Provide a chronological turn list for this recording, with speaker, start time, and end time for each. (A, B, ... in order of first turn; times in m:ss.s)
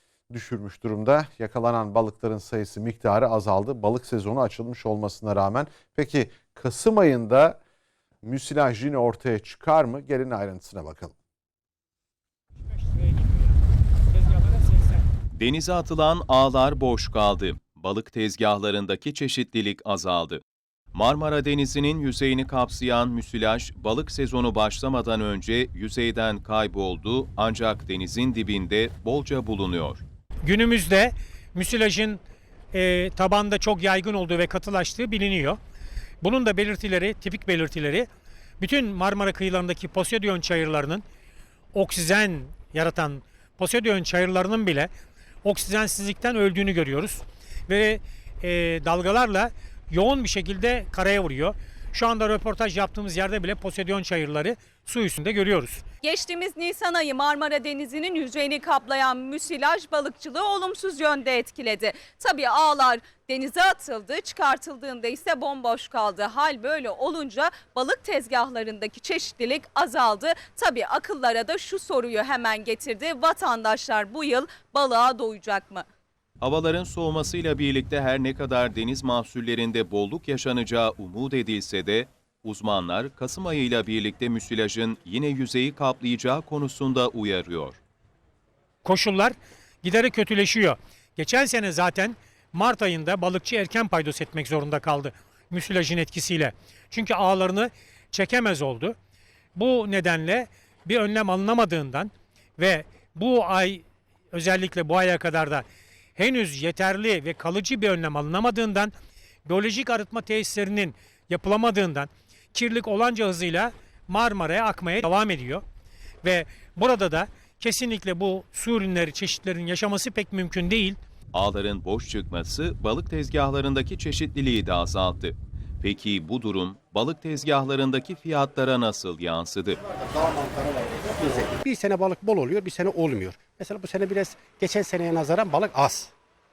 0:00.3-0:07.6 A
0:08.2-0:11.1 A
0:12.7-0:13.6 B
0:14.1-0:15.0 B
0:15.3-0:20.4 C
0:20.9-0:30.0 C
0:30.4-0:32.2 B
0:32.7-0:35.6 B
0:36.2-0:38.1 B
0:38.6-0:41.0 B
0:41.7-0:44.9 B
0:45.4-0:55.8 B
0:56.0-1:15.8 D
1:16.4-1:27.8 C
1:28.8-1:39.0 B
1:39.5-1:45.6 B
1:46.2-1:48.9 B
1:49.4-1:55.6 B
1:56.2-2:01.0 B
2:01.3-2:09.8 C
2:10.2-2:16.1 E